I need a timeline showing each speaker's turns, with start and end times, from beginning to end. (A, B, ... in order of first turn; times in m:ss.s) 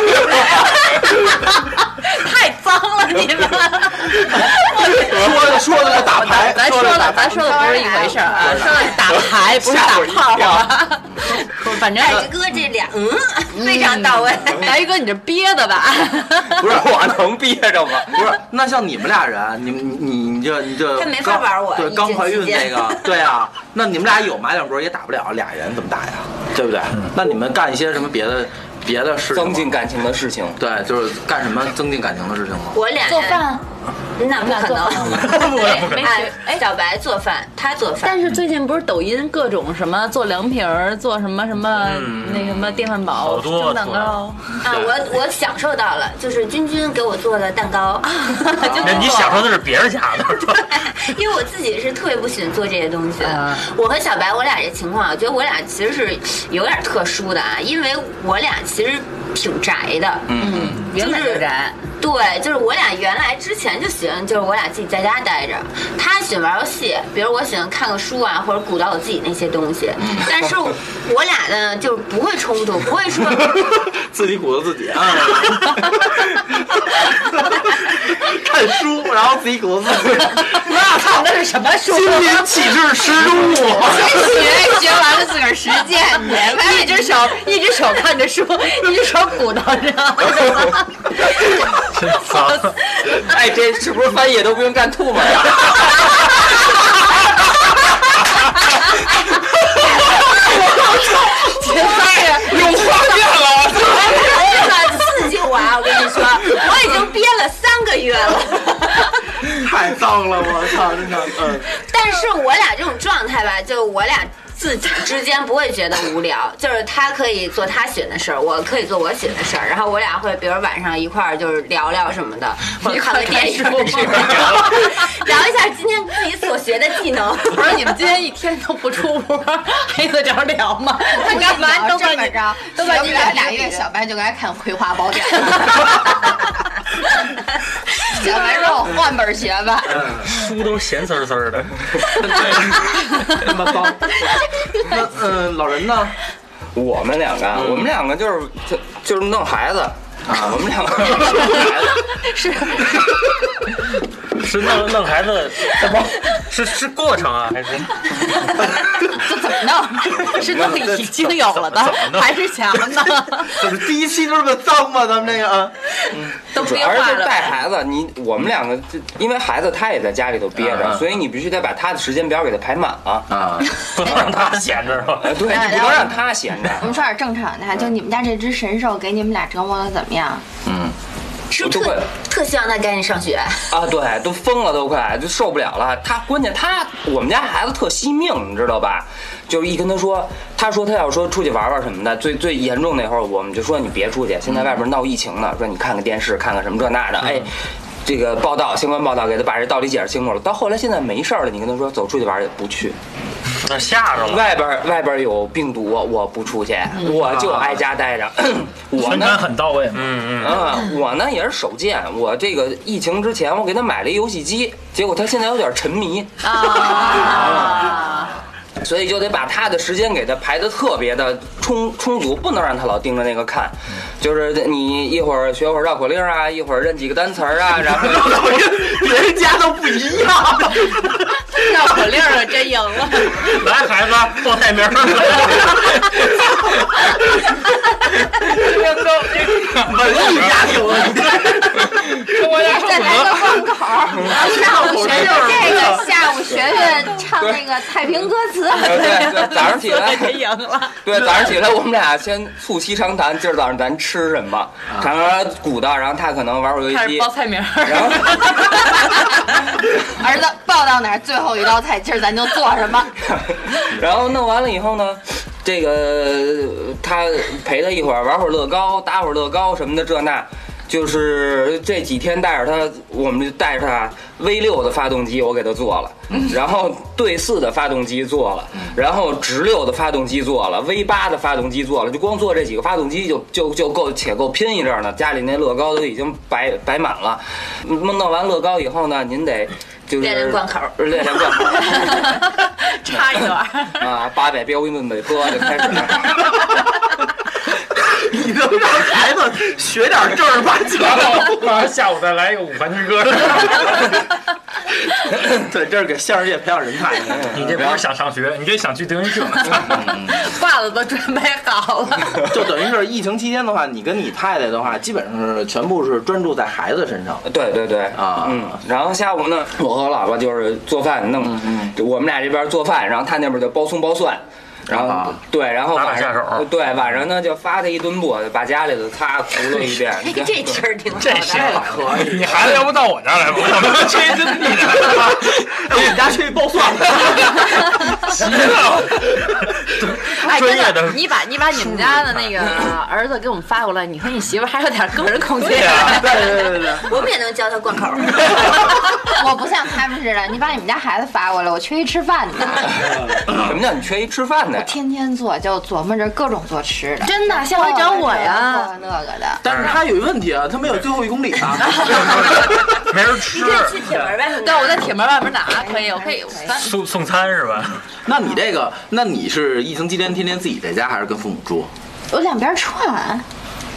0:00.3-0:12.3 A
0:04.8-0:08.7 B
0:07.3-0:08.9 C
0:09.0-0:10.8 D
0:11.9-0:14.8 E
0:13.5-0:16.6 A
0:16.6-0:18.3 D
0:16.6-0:17.2 B
0:18.1-0:29.8 B
0:20.9-0:23.2 E
0:29.3-0:30.6 D
0:30.6-0:32.8 B
0:32.7-0:33.5 E
0:33.0-0:33.6 A
0:34.2-0:38.2 E
0:34.4-0:36.6 A
0:35.1-0:36.2 F
0:38.0-0:44.6 A
0:41.7-0:44.9 F
0:44.6-0:49.5 E
0:48.4-0:49.3 A
0:48.6-0:49.0 B
0:48.8-0:50.9 F
0:50.5-1:13.6 E
0:53.2-0:53.7 A
1:00.3-1:00.8 B
1:00.4-1:01.8 A
1:10.0-1:10.3 B
1:13.4-1:21.2 B
1:20.4-1:22.8 A
1:21.8-1:24.2 B
1:23.8-1:31.6 A
1:24.0-1:27.0 C
1:31.9-1:32.7 G
1:32.1-1:33.1 A
1:33.0-1:36.0 D
1:41.4-1:42.7 A
1:41.8-1:49.1 E
1:42.6-1:43.6 B
1:49.4-1:51.7 B
1:51.7-2:07.8 E
2:02.8-2:04.7 A
2:07.5-2:13.8 A
2:11.1-2:16.5 C
2:17.9-2:20.1 C
2:19.9-2:20.4 B
2:20.2-2:22.6 F
2:22.2-2:26.2 B
2:26.7-2:32.1 D
2:27.5-2:27.9 B
2:30.3-2:30.6 B
2:32.1-2:33.2 A
2:34.3-2:38.4 F
2:39.1-2:40.3 C
2:40.1-2:43.6 A
2:40.3-2:41.1 B
2:41.6-2:42.3 G
2:43.5-2:46.3 B
2:46.5-2:47.6 A
2:46.5-2:53.3 D
2:50.5-2:51.2 B
2:53.3-2:53.7 B
2:53.9-2:55.4 F
2:55.2-2:56.9 D
2:55.4-2:56.2 C
2:56.8-3:00.4 C
3:00.6-3:00.9 B
3:01.5-3:03.8 E
3:01.6-3:02.1 D
3:03.7-3:17.5 D
3:18.0-3:23.0 D
3:23.6-3:24.5 F
3:24.1-3:29.4 D
3:27.3-3:27.7 F
3:28.9-3:30.2 G
3:29.9-3:30.7 F
3:30.4-3:38.2 D
3:36.4-3:38.3 A
3:37.4-3:37.7 B
3:38.8-3:48.4 D
3:47.8-3:51.5 B
3:51.5-3:53.4 A
3:53.5-3:56.0 F
3:58.5-3:58.8 B
3:58.6-4:00.4 G
3:59.6-4:02.2 B
4:02.2-4:03.7 G
4:02.4-4:09.2 C
4:04.3-4:06.2 B
4:04.3-4:05.9 A
4:06.4-4:07.8 D
4:08.7-4:11.0 A
4:08.8-4:10.4 D
4:11.0-4:17.3 D
4:16.9-4:19.3 A
4:17.8-4:19.0 D
4:20.0-4:23.2 C
4:23.3-4:52.2 D
4:50.2-4:52.1 E
4:52.0-4:54.0 A
4:54.0-4:56.5 D
4:57.9-5:01.7 B
5:01.0-5:04.1 G
5:05.4-5:07.6 B
5:07.3-5:08.0 D
5:07.5-5:10.0 G
5:09.8-5:10.5 B
5:09.9-5:12.4 A
5:12.5-5:17.4 B
5:17.4-5:30.8 D
5:18.1-5:18.8 B
5:21.4-5:21.9 B
5:24.9-5:25.4 B
5:25.9-5:26.7 F
5:30.1-5:32.0 E
5:31.2-5:36.2 G
5:31.6-5:32.6 B
5:33.8-5:37.7 B
5:38.2-5:39.2 G
5:40.0-5:41.2 F
5:40.4-5:46.5 A
5:42.0-5:42.4 F
5:46.0-5:47.2 B
5:46.3-5:49.0 E
5:49.3-5:53.1 C
5:53.1-5:53.7 B
5:53.4-5:54.9 D
5:54.7-5:59.6 C
5:57.2-5:58.9 A
5:59.6-6:02.9 B
5:59.6-6:00.0 F
6:01.9-6:02.3 A
6:02.2-6:02.5 E
6:02.9-6:04.2 F
6:03.3-6:05.1 E
6:04.5-6:07.0 A
6:05.8-6:06.8 C
6:06.8-6:08.1 F
6:08.2-6:11.9 B
6:12.3-6:13.4 C